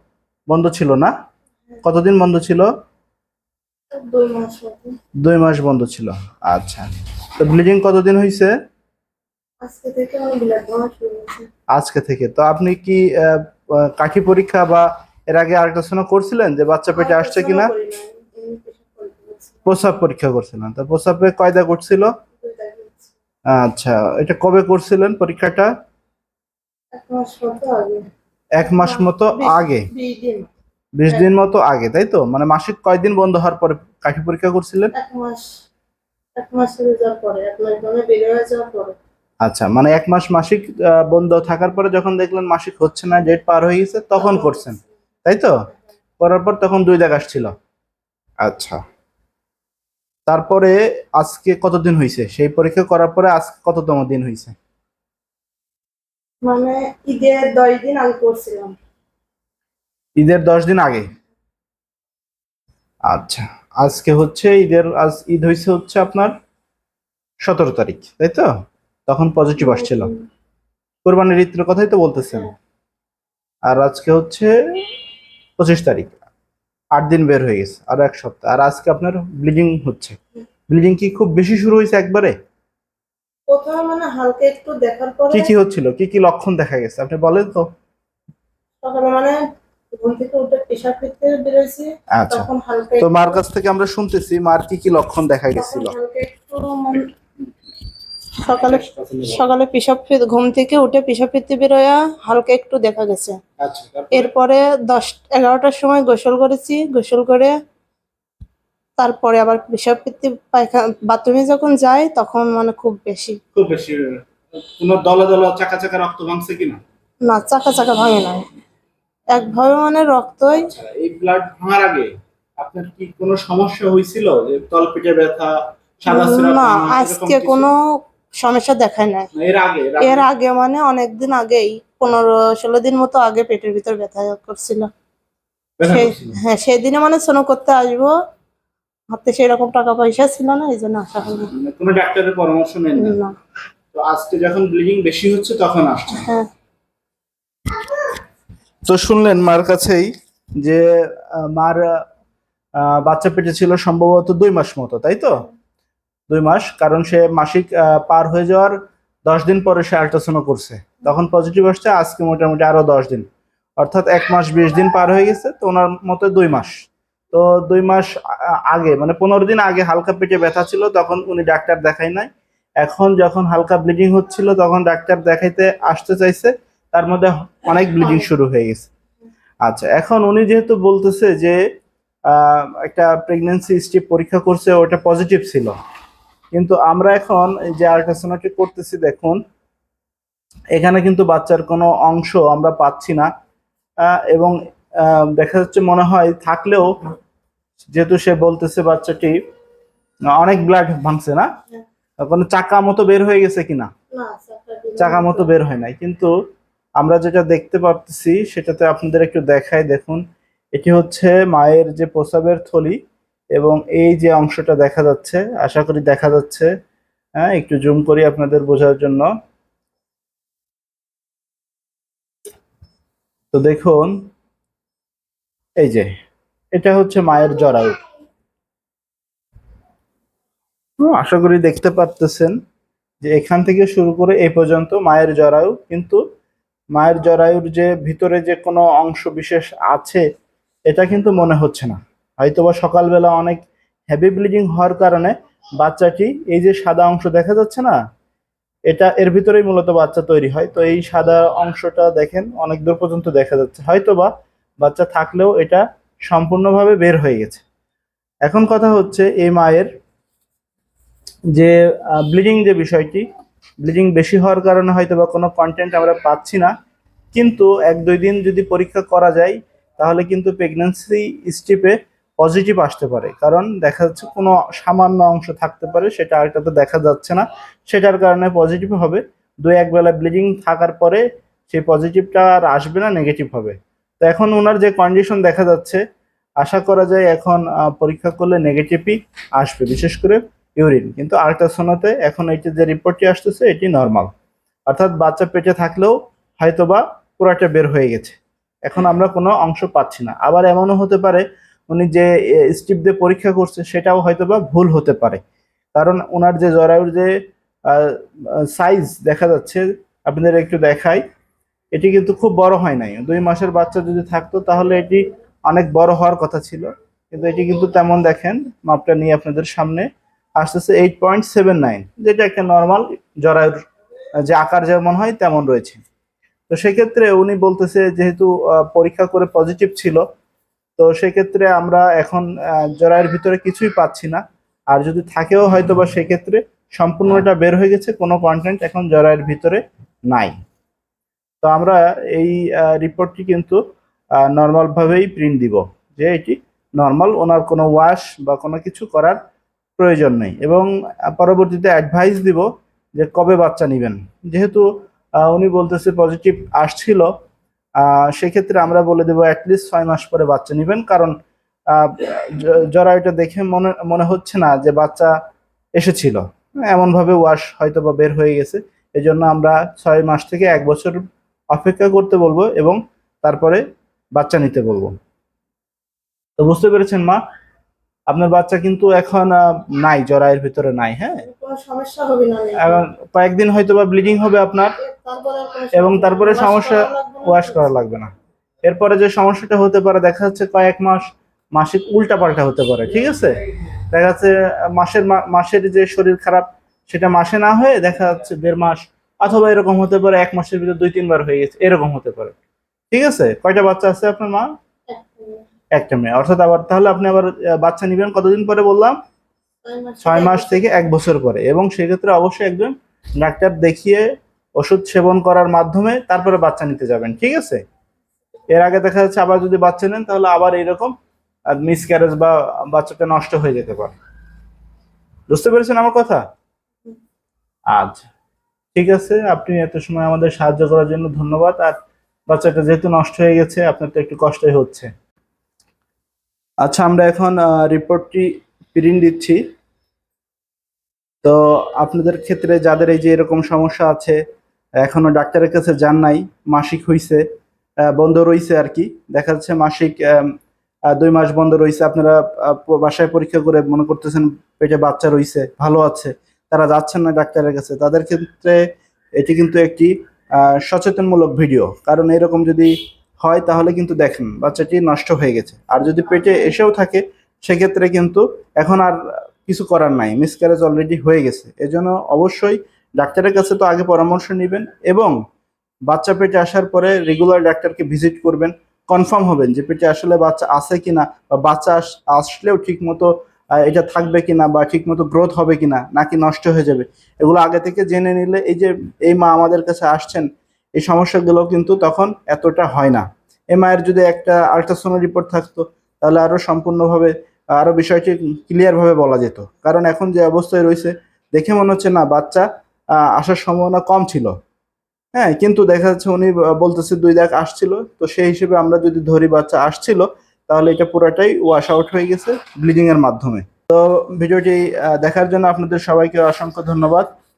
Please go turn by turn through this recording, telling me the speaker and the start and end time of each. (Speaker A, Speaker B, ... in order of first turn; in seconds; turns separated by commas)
Speaker A: 0.5-1.1, Speaker A: 1.8-2.7, Speaker B: 3.9-4.9, Speaker A: 5.2-8.5, Speaker B: 9.6-11.5, Speaker A: 11.7-17.7, Speaker B: 16.9-19.7, Speaker A: 19.7-22.1, Speaker B: 22.4-23.1, Speaker A: 23.5-25.7, Speaker B: 26.9-28.0, Speaker A: 28.6-29.9, Speaker B: 28.6-30.5, Speaker A: 31.0-34.9, Speaker B: 34.9-35.5, Speaker B: 36.4-39.0, Speaker A: 39.4-45.6, Speaker B: 44.2-44.8, Speaker A: 46.2-47.5, Speaker A: 48.4-48.8, Speaker A: 50.3-54.5, Speaker B: 56.4-58.8, Speaker A: 60.2-61.0, Speaker A: 63.1-66.3, Speaker A: 67.4-68.5, Speaker A: 69.1-70.1, Speaker B: 69.6-70.2, Speaker A: 71.0-72.5, Speaker A: 73.7-74.5, Speaker A: 75.6-76.2, Speaker A: 77.0-80.2, Speaker A: 80.7-82.3, Speaker B: 83.5-85.5, Speaker A: 85.3-87.7, Speaker B: 88.8-89.4, Speaker B: 89.9-93.4, Speaker A: 92.1-92.5, Speaker A: 93.0-95.9, Speaker B: 95.5-97.1, Speaker B: 98.4-103.4, Speaker A: 98.5-99.4, Speaker A: 103.6-104.3, Speaker B: 104.1-107.5, Speaker B: 109.0-113.4, Speaker A: 113.5-116.8, Speaker B: 117.2-118.5, Speaker B: 119.3-120.7, Speaker A: 120.6-127.7, Speaker B: 126.1-127.8, Speaker B: 128.4-129.3, Speaker A: 129.3-130.2, Speaker B: 130.0-134.9, Speaker A: 135.8-136.4, Speaker B: 135.9-138.1, Speaker B: 139.1-141.5, Speaker A: 141.5-143.2, Speaker B: 142.9-143.3, Speaker A: 143.9-146.3, Speaker B: 146.1-146.5, Speaker A: 148.9-151.8, Speaker A: 152.8-155.4, Speaker A: 156.3-163.3, Speaker A: 163.8-168.1, Speaker A: 168.7-172.3, Speaker A: 172.8-178.9, Speaker A: 179.6-181.6, Speaker A: 182.3-185.8, Speaker A: 186.5-189.4, Speaker A: 190.7-193.3, Speaker A: 194.0-196.9, Speaker A: 197.9-199.4, Speaker A: 200.4-201.5, Speaker A: 202.2-203.9, Speaker B: 204.1-205.5, Speaker A: 205.0-206.3, Speaker A: 207.0-210.2, Speaker A: 210.7-213.0, Speaker A: 213.5-216.7, Speaker A: 217.4-219.3, Speaker A: 223.5-224.1, Speaker A: 225.8-226.1, Speaker A: 226.7-228.0, Speaker A: 231.0-232.5, Speaker A: 233.2-236.2, Speaker A: 236.9-240.2, Speaker A: 240.9-248.0, Speaker A: 248.9-254.3, Speaker A: 254.8-257.6, Speaker A: 258.4-259.9, Speaker A: 261.5-263.2, Speaker A: 263.8-266.7, Speaker A: 267.3-286.0, Speaker A: 286.6-294.3, Speaker A: 294.9-305.4, Speaker A: 305.9-307.3, Speaker A: 307.9-311.2, Speaker A: 311.9-320.1, Speaker A: 320.6-323.8, Speaker A: 324.4-326.0, Speaker A: 326.7-330.2, Speaker A: 331.0-340.6, Speaker A: 341.6-343.8, Speaker A: 344.4-349.4, Speaker A: 350.0-357.3, Speaker A: 358.0-361.3, Speaker A: 361.9-365.3, Speaker A: 366.0-373.8, Speaker A: 374.3-375.1, Speaker A: 376.6-377.4, Speaker A: 378.3-381.4, Speaker B: 381.4-383.0, Speaker A: 382.8-384.9, Speaker B: 385.0-387.9, Speaker A: 385.9-388.3, Speaker A: 388.8-402.6, Speaker A: 403.1-404.7, Speaker B: 405.1-405.6, Speaker A: 405.9-409.2, Speaker B: 409.8-411.0, Speaker A: 410.2-414.2, Speaker A: 414.8-417.8, Speaker A: 418.7-421.1, Speaker A: 421.7-424.1, Speaker A: 425.5-426.4, Speaker A: 427.9-428.3, Speaker A: 428.9-432.0, Speaker A: 432.5-435.1, Speaker A: 436.8-439.6, Speaker A: 441.4-444.4, Speaker A: 445.0-447.4, Speaker A: 448.1-450.5, Speaker A: 451.1-475.3, Speaker B: 466.3-466.8, Speaker A: 476.1-502.7, Speaker A: 503.3-504.6, Speaker A: 505.3-517.3